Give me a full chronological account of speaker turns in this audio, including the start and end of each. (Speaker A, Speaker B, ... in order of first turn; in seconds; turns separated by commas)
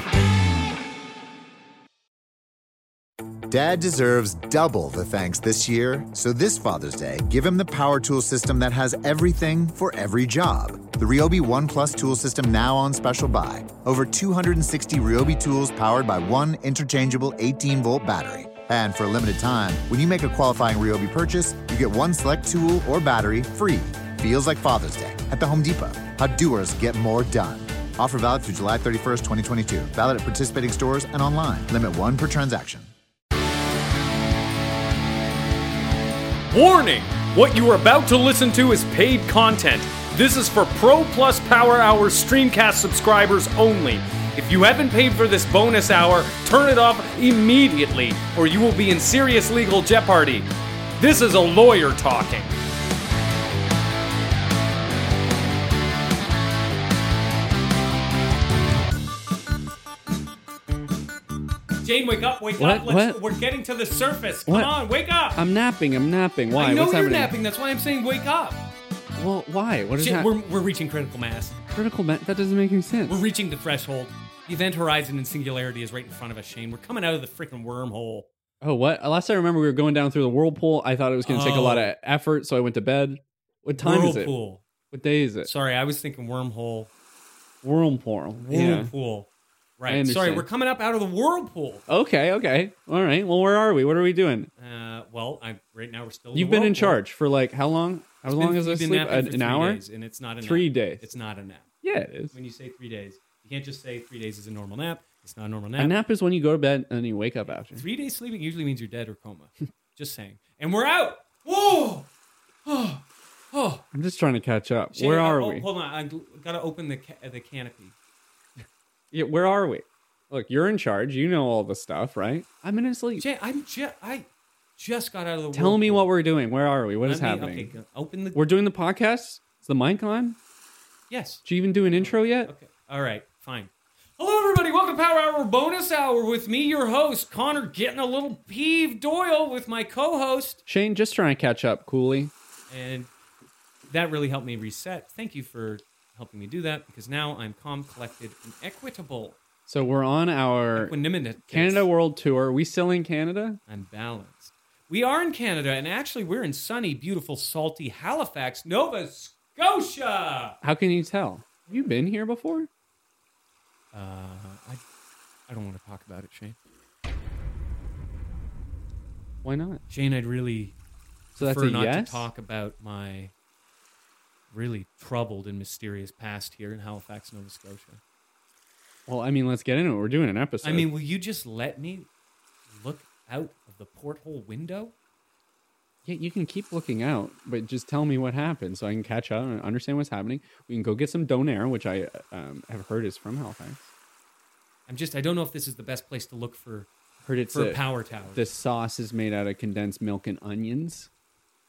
Speaker A: 3.5-32.9, Speaker B: 36.5-52.5, Speaker B: 61.8-65.4, Speaker C: 62.6-63.2, Speaker C: 64.5-64.7, Speaker C: 65.3-67.3, Speaker B: 66.5-68.6, Speaker C: 69.2-70.3, Speaker B: 70.0-71.6, Speaker C: 71.7-73.2, Speaker B: 73.1-78.3, Speaker C: 78.6-84.3, Speaker B: 81.2-81.9, Speaker B: 83.8-84.6, Speaker C: 84.9-85.5, Speaker B: 85.4-86.9, Speaker C: 87.6-88.9, Speaker B: 88.4-91.8, Speaker C: 89.9-90.5, Speaker C: 91.9-94.5, Speaker B: 94.6-97.0, Speaker C: 96.3-99.8, Speaker B: 98.3-101.7, Speaker C: 100.4-101.1, Speaker C: 101.8-102.3, Speaker B: 102.3-106.0, Speaker C: 105.8-107.8, Speaker B: 107.8-112.1, Speaker B: 112.7-113.8, Speaker C: 113.9-115.7, Speaker B: 114.9-117.9, Speaker C: 119.1-123.2, Speaker B: 123.2-126.1, Speaker C: 125.5-127.7, Speaker B: 127.0-128.4, Speaker C: 128.3-130.4, Speaker B: 131.1-140.6, Speaker C: 131.4-132.5, Speaker C: 140.7-142.3, Speaker B: 142.7-143.1, Speaker B: 143.9-149.4, Speaker C: 149.7-151.0, Speaker B: 150.8-151.9, Speaker C: 151.5-153.6, Speaker B: 153.7-160.6, Speaker C: 160.6-162.7, Speaker B: 163.9-164.8, Speaker B: 165.5-166.6, Speaker C: 169.4-169.8, Speaker B: 169.9-170.8, Speaker B: 171.3-173.3, Speaker C: 171.4-172.3, Speaker B: 174.5-178.0, Speaker C: 179.1-180.9, Speaker B: 180.6-182.1, Speaker B: 182.7-184.9, Speaker C: 186.1-193.9, Speaker B: 194.9-196.9, Speaker C: 197.2-197.8, Speaker B: 197.5-198.5, Speaker C: 198.3-201.1